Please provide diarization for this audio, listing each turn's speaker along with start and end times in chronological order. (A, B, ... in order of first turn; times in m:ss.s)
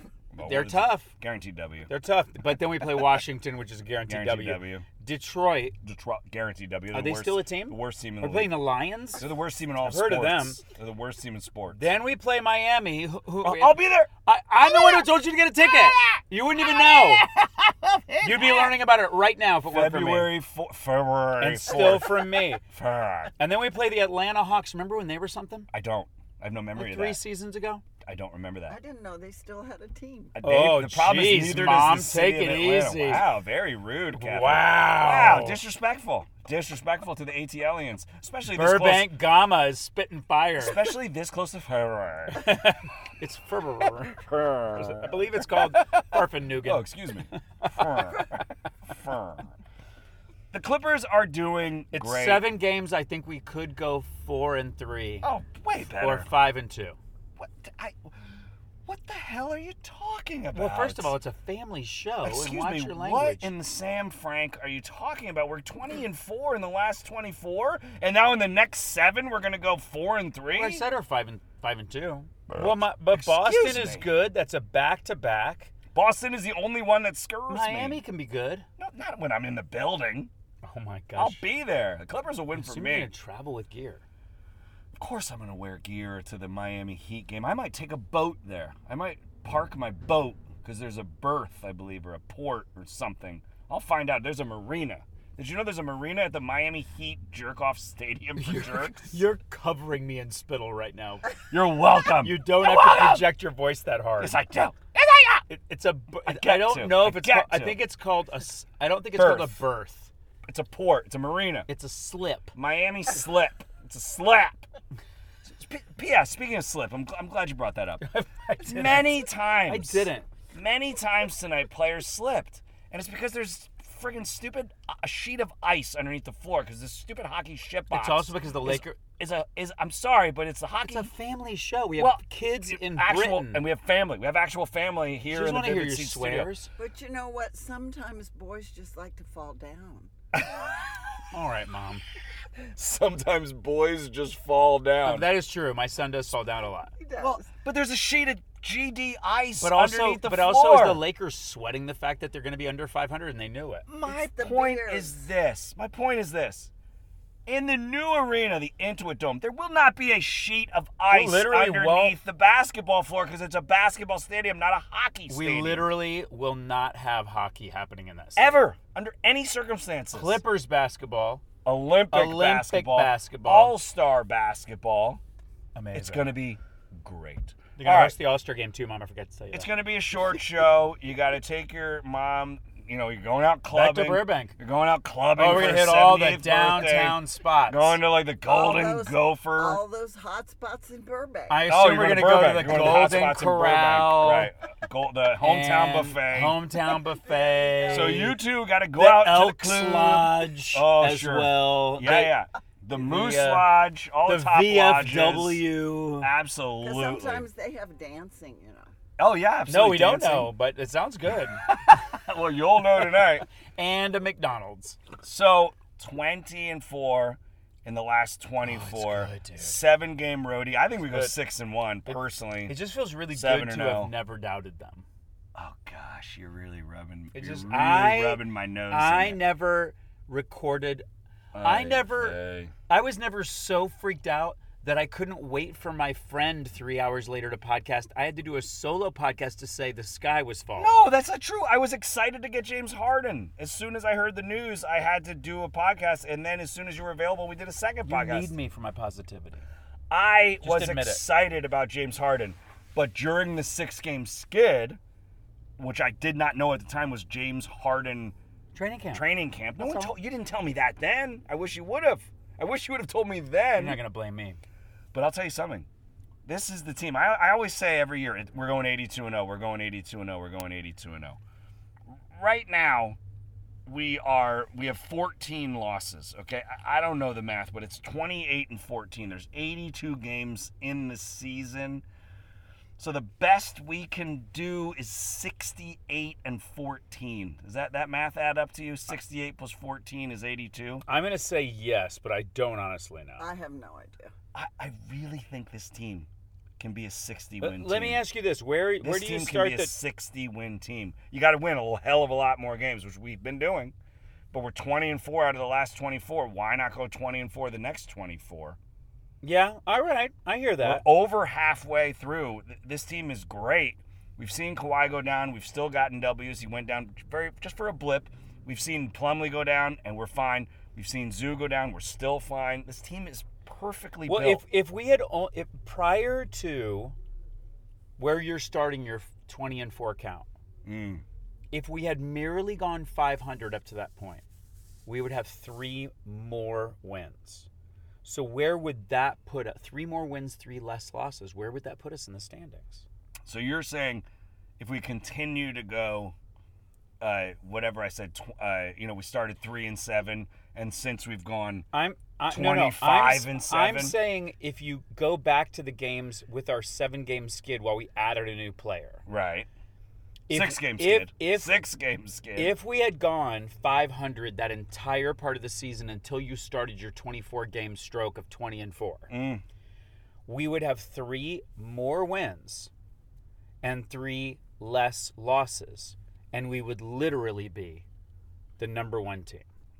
0:00.3-0:01.9 A
0:00.4-0:01.1 B
0:01.9-0:05.8 B
0:04.1-0:04.8 A
0:05.8-0:08.6 A
0:06.9-0:09.2 B
0:09.2-0:11.8 A
0:09.8-0:10.6 B
0:11.7-0:17.2 B
0:13.4-0:14.1 A
0:15.7-0:18.7 A
0:18.2-0:20.3 B
0:19.7-0:23.3 A
0:21.4-0:22.6 B
0:23.4-0:25.7 B
0:25.7-0:27.2 A
0:26.7-0:27.8 B
0:28.0-0:28.8 A
0:28.7-0:30.3 C
0:30.3-0:39.2 A
0:30.4-0:33.2 B
0:34.1-0:35.6 B
0:38.5-0:40.8 B
0:40.6-0:42.5 A
0:42.3-0:48.2 B
0:44.0-0:49.5 A
0:50.5-0:52.6 A
0:51.9-0:55.3 B
0:55.2-0:56.3 A
0:56.0-0:57.0 B
0:57.4-0:58.1 A
0:58.8-1:01.1 A
1:00.5-1:03.5 B
1:02.2-1:10.8 A
1:10.5-1:15.7 B
1:12.5-1:14.1 A
1:15.9-1:18.0 A
1:17.5-1:18.6 B
1:18.8-1:20.3 A
1:20.6-1:21.4 B
1:21.2-1:23.1 A
1:22.5-1:24.0 B
1:24.9-1:39.2 A
1:38.4-1:41.3 B
1:41.5-1:43.3 A
1:42.2-1:44.4 B
1:44.2-1:45.4 A
1:45.5-1:50.1 B
1:46.2-1:47.8 A
1:49.1-1:49.6 A
1:50.4-1:51.7 A
1:51.7-1:52.5 B
1:52.5-1:54.7 A
1:55.4-1:58.0 A
1:58.0-2:00.3 B
1:58.6-2:11.1 A
2:07.9-2:09.0 B
2:10.8-2:13.6 B
2:12.0-2:16.5 A
2:15.3-2:16.7 B
2:16.8-2:20.1 C
2:20.3-2:20.7 A
2:21.3-2:22.0 B
2:22.6-2:25.3 A
2:25.0-2:26.9 B
2:27.0-2:27.5 C
2:27.2-2:31.0 A
2:29.6-2:33.9 B
2:33.9-2:36.7 A
2:33.9-2:35.2 C
2:37.4-2:45.9 A
2:41.1-2:42.2 B
2:45.3-2:48.6 B
2:48.4-2:50.4 A
2:50.1-2:51.4 B
2:51.6-2:55.2 A
2:52.1-2:53.8 B
2:55.7-2:56.3 B
2:55.9-2:58.2 A
2:57.8-2:59.7 B
2:59.5-3:09.8 A
3:03.7-3:04.5 B
3:05.4-3:08.0 B
3:08.4-3:11.6 C
3:11.5-3:14.5 B
3:11.7-3:16.6 A
3:15.4-3:18.4 B
3:17.2-3:18.1 C
3:17.9-3:25.6 A
3:18.9-3:22.4 B
3:22.9-3:26.3 B
3:26.2-3:27.5 A
3:26.8-3:28.9 C
3:29.2-3:30.5 A
3:29.7-3:31.7 B
3:31.6-3:33.4 A
3:33.0-3:35.0 B
3:35.2-3:42.8 A
3:38.6-3:39.8 B
3:42.1-3:45.0 B
3:43.3-3:44.1 A
3:45.5-3:49.4 A
3:47.3-3:51.0 B
3:51.5-3:52.7 A
3:51.6-4:01.1 B
4:00.8-4:08.5 A
4:08.0-4:09.6 B
4:10.1-4:15.0 A
4:10.6-4:11.2 B
4:15.8-4:18.3 A
4:18.7-4:19.2 B
4:19.1-4:24.0 A
4:19.8-4:20.1 B
4:23.8-4:24.6 B
4:25.1-4:25.9 A
4:26.4-4:31.4 A
4:32.3-4:33.2 A
4:33.8-4:42.0 A
4:43.0-4:51.0 A
4:51.0-4:53.4 B
4:53.4-4:54.3 C
4:54.5-4:56.3 A
4:56.8-4:58.2 A
4:57.6-4:59.9 B
4:59.0-5:03.9 A
5:04.5-5:08.8 A
5:09.4-5:11.0 B
5:10.8-5:24.6 A
5:24.3-5:27.1 B
5:28.2-5:30.5 B
5:30.8-5:31.2 A
5:31.7-5:34.4 B
5:35.0-5:37.7 B
5:38.2-5:43.0 B
5:43.4-5:44.2 A
5:44.8-5:46.3 A
5:47.2-5:51.9 A
5:51.9-5:59.2 B
5:52.5-5:54.2 A
5:59.2-5:59.7 A
6:00.5-6:01.8 B
6:00.5-6:02.7 A
6:02.5-6:09.3 B
6:09.3-6:09.6 A
6:10.5-6:12.9 B
6:13.8-6:18.0 B
6:18.8-6:19.6 B